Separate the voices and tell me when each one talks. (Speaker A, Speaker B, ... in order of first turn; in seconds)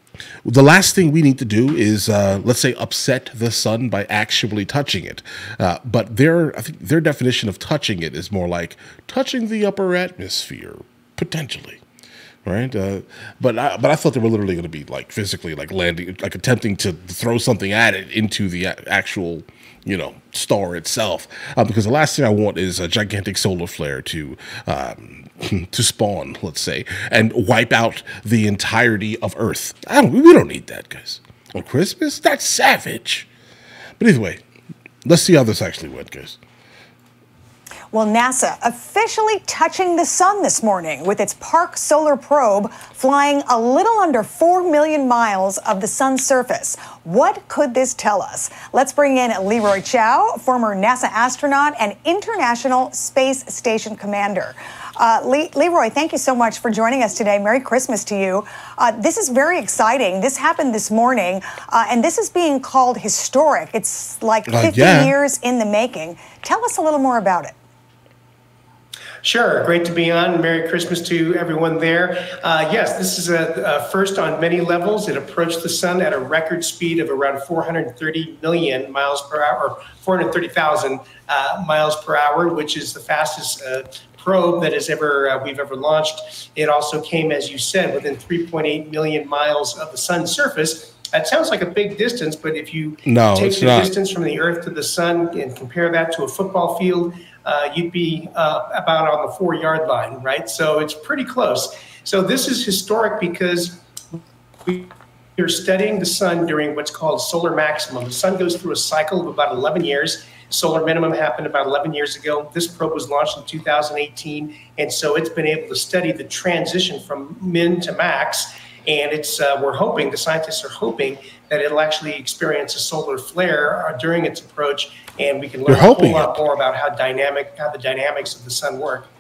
Speaker A: 0.4-11.8, 12.4-33.3, 34.0-34.4, 35.0-36.4, 64.5-65.1, 93.1-93.9, 125.7-126.4
Speaker B: 37.9-67.5
Speaker C: 69.2-103.8, 104.7-129.1